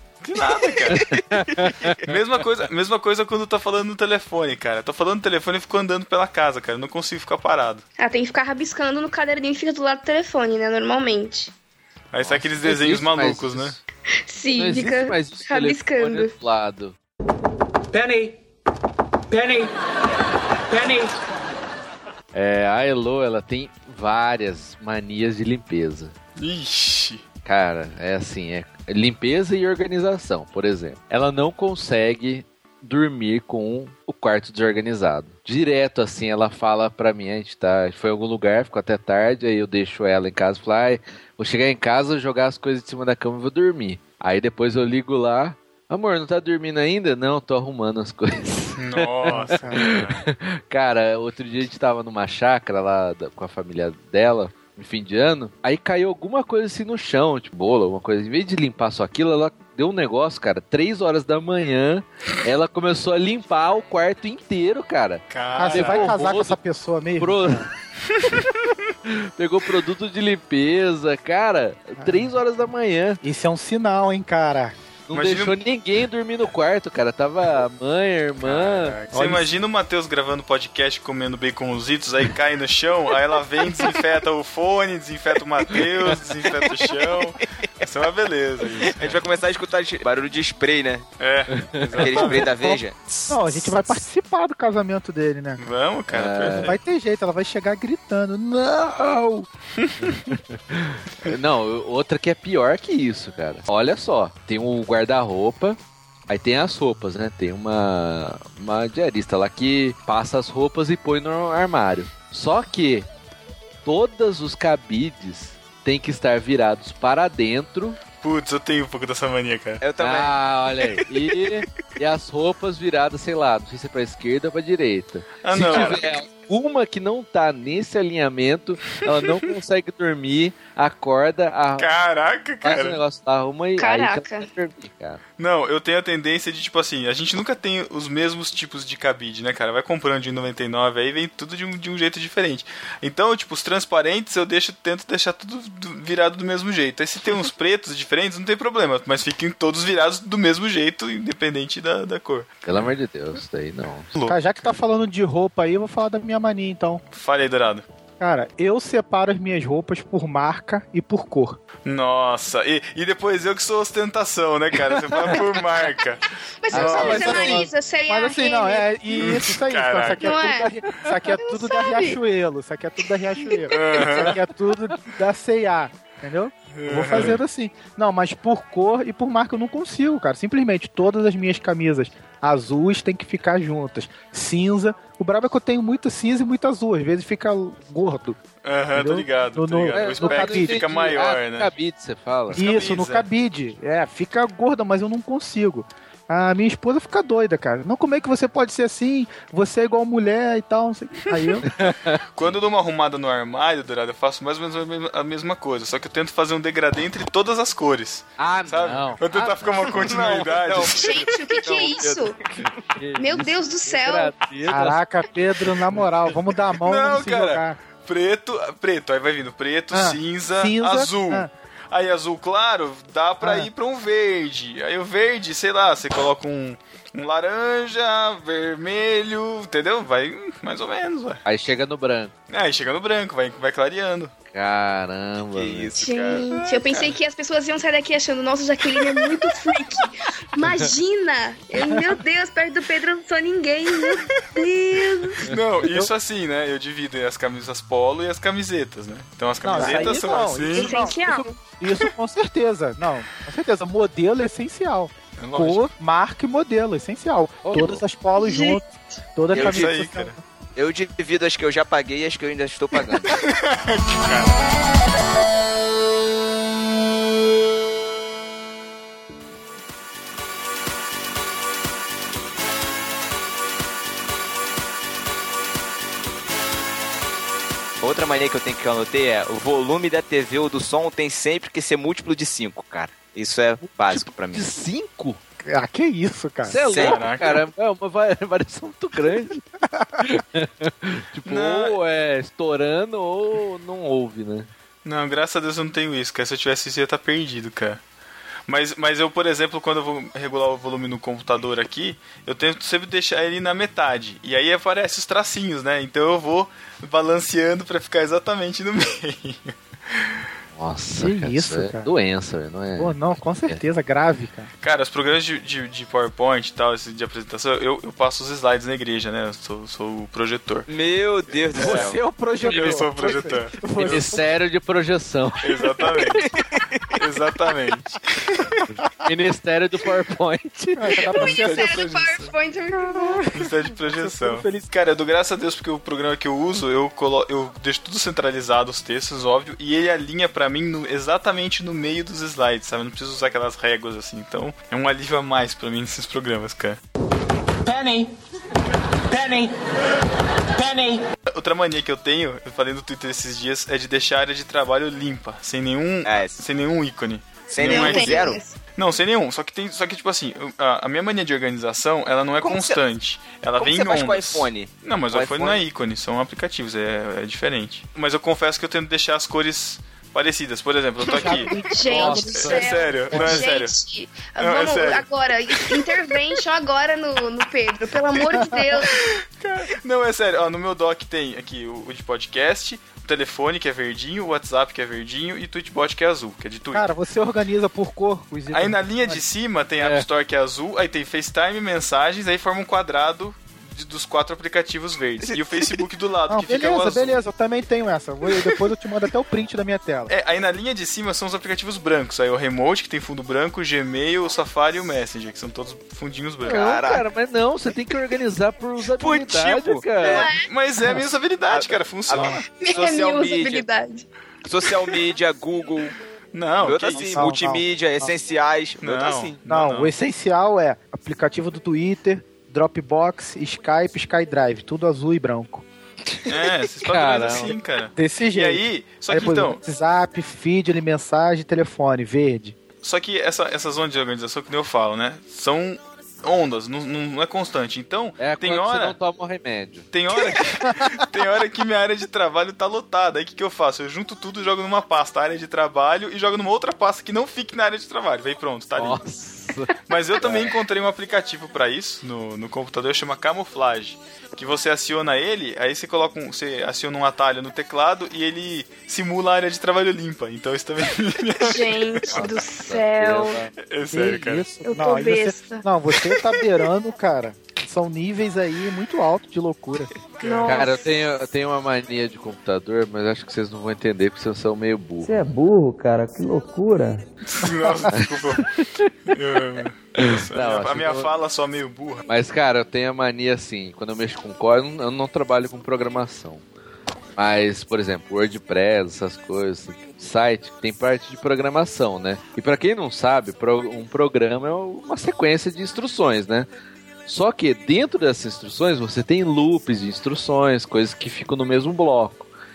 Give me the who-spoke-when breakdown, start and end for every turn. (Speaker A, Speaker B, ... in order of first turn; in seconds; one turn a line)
Speaker A: 0.2-1.0
Speaker B: 0.9-2.1
Speaker A: 2.0-7.8
Speaker C: 8.0-11.5
Speaker A: 12.1-13.8
Speaker B: 12.2-13.8
Speaker C: 14.3-16.3
Speaker B: 14.5-16.9
Speaker D: 17.9-18.4
Speaker D: 19.3-19.7
Speaker D: 20.7-21.1
Speaker B: 22.3-26.1
Speaker A: 26.4-27.2
Speaker B: 27.4-66.6
Speaker A: 48.8-50.2
Speaker E: 49.3-49.8
Speaker A: 65.3-66.1
Speaker E: 65.5-67.7
Speaker B: 67.2-67.7
Speaker A: 68.1-68.5
Speaker B: 69.0-73.2
Speaker E: 72.0-72.3
Speaker E: 73.2-74.8
Speaker B: 75.1-79.0
Speaker A: 75.1-75.6
Speaker A: 78.4-89.2
Speaker E: 79.1-79.4
Speaker B: 85.7-86.1
Speaker F: 86.7-87.0
Speaker F: 88.8-91.0
Speaker A: 91.2-92.5
Speaker B: 91.7-92.4
Speaker F: 92.0-93.1
Speaker E: 92.6-95.7
Speaker A: 95.6-96.8
Speaker B: 96.1-96.8
Speaker E: 96.6-99.5
Speaker A: 99.8-100.2
Speaker B: 100.0-113.1
Speaker B: 113.8-118.0
Speaker A: 118.2-119.8
Speaker F: 119.8-121.0
Speaker B: 120.0-131.9
Speaker A: 125.4-126.2
Speaker F: 125.7-126.0
Speaker A: 131.8-133.0
Speaker B: 132.6-135.2
Speaker C: 133.8-134.5
Speaker A: 135.4-152.5
Speaker B: 152.6-154.1
Speaker A: 154.1-154.7
Speaker E: 154.3-157.0
Speaker A: 157.1-157.8
Speaker E: 158.2-161.6
Speaker A: 161.8-167.6
Speaker C: 166.6-168.9
Speaker E: 166.7-188.4
Speaker B: 166.9-167.2
Speaker A: 169.1-170.4
Speaker C: 170.2-170.7
Speaker C: 171.3-172.2
Speaker C: 173.4-174.0
Speaker A: 173.7-174.3
Speaker A: 176.7-177.4
Speaker A: 188.6-191.7
Speaker E: 188.9-190.8
Speaker B: 189.9-192.6
Speaker A: 192.5-193.3
Speaker E: 192.5-201.7
Speaker B: 201.8-202.2
Speaker A: 202.3-211.8
Speaker B: 208.4-210.1
Speaker F: 209.8-212.3
Speaker C: 210.9-212.4
Speaker B: 212.9-215.0
Speaker C: 213.2-214.4
Speaker E: 214.7-217.8
Speaker A: 216.8-231.4
Speaker E: 219.9-221.5
Speaker E: 223.4-223.7
Speaker B: 231.4-232.3
Speaker A: 232.5-234.3
Speaker B: 234.5-236.0
Speaker F: 235.5-236.5
Speaker C: 236.0-245.5
Speaker A: 245.4-251.0
Speaker E: 249.6-258.8
Speaker C: 249.8-251.5
Speaker A: 255.4-255.9
Speaker B: 257.7-258.0
Speaker C: 258.4-258.8
Speaker E: 259.4-260.4
Speaker F: 259.5-259.9
Speaker A: 259.5-260.4
Speaker F: 260.8-263.3
Speaker A: 263.3-264.6
Speaker F: 278.0-284.7
Speaker B: 284.0-285.4
Speaker E: 285.6-286.8
Speaker B: 286.6-289.6
Speaker F: 286.9-287.2
Speaker A: 286.9-287.6
Speaker B: 290.2-294.7
Speaker A: 291.4-292.0
Speaker A: 295.0-298.0
Speaker A: 298.7-310.4
Speaker B: 310.7-313.8
Speaker E: 311.2-312.1
Speaker E: 313.0-314.7
Speaker A: 314.8-320.9
Speaker F: 320.9-322.2
Speaker E: 321.7-324.4
Speaker A: 321.8-322.1
Speaker A: 322.6-324.4
Speaker B: 322.7-323.0
Speaker B: 324.0-325.8
Speaker A: 325.6-326.6
Speaker A: 327.1-328.8
Speaker B: 328.9-331.2
Speaker E: 331.0-332.0
Speaker A: 331.4-332.4
Speaker C: 331.4-333.4
Speaker E: 333.1-334.9
Speaker A: 333.5-347.0
Speaker D: 347.8-348.3
Speaker D: 349.3-349.7
Speaker D: 350.8-351.2
Speaker A: 351.5-373.9
Speaker F: 356.2-356.6
Speaker F: 357.7-358.6
Speaker C: 357.8-358.8
Speaker F: 362.6-363.0
Speaker F: 363.8-365.8
Speaker E: 371.3-373.6
Speaker C: 371.8-379.2
Speaker B: 372.1-373.4
Speaker A: 374.6-375.2
Speaker A: 379.2-387.1
Speaker E: 386.9-389.4
Speaker A: 388.7-397.4
Speaker B: 390.0-390.2
Speaker F: 395.4-396.0
Speaker E: 396.5-400.3
Speaker A: 400.3-406.9
Speaker B: 406.6-410.5
Speaker F: 406.7-407.2
Speaker F: 409.2-410.5
Speaker C: 410.3-410.7
Speaker A: 410.7-412.6
Speaker F: 411.7-413.9
Speaker C: 412.7-414.2
Speaker F: 414.6-416.1
Speaker A: 416.5-417.4
Speaker F: 416.8-419.5
Speaker E: 417.4-418.3
Speaker A: 419.0-420.1
Speaker E: 419.7-425.8
Speaker A: 426.4-429.8
Speaker B: 427.0-427.7
Speaker E: 428.1-432.8
Speaker A: 433.0-439.1
Speaker B: 438.4-440.1
Speaker A: 440.1-449.2
Speaker B: 448.9-450.7
Speaker A: 450.1-462.4
Speaker C: 461.6-463.6
Speaker B: 462.3-463.7
Speaker A: 463.8-464.7
Speaker E: 464.1-470.1
Speaker C: 464.8-465.8
Speaker A: 470.4-470.9
Speaker C: 470.4-470.9
Speaker B: 470.6-475.3
Speaker G: 475.2-477.2
Speaker A: 477.5-478.6
Speaker A: 479.3-482.2
Speaker B: 480.2-481.3
Speaker B: 482.2-486.6
Speaker B: 487.4-496.7
Speaker B: 497.2-502.5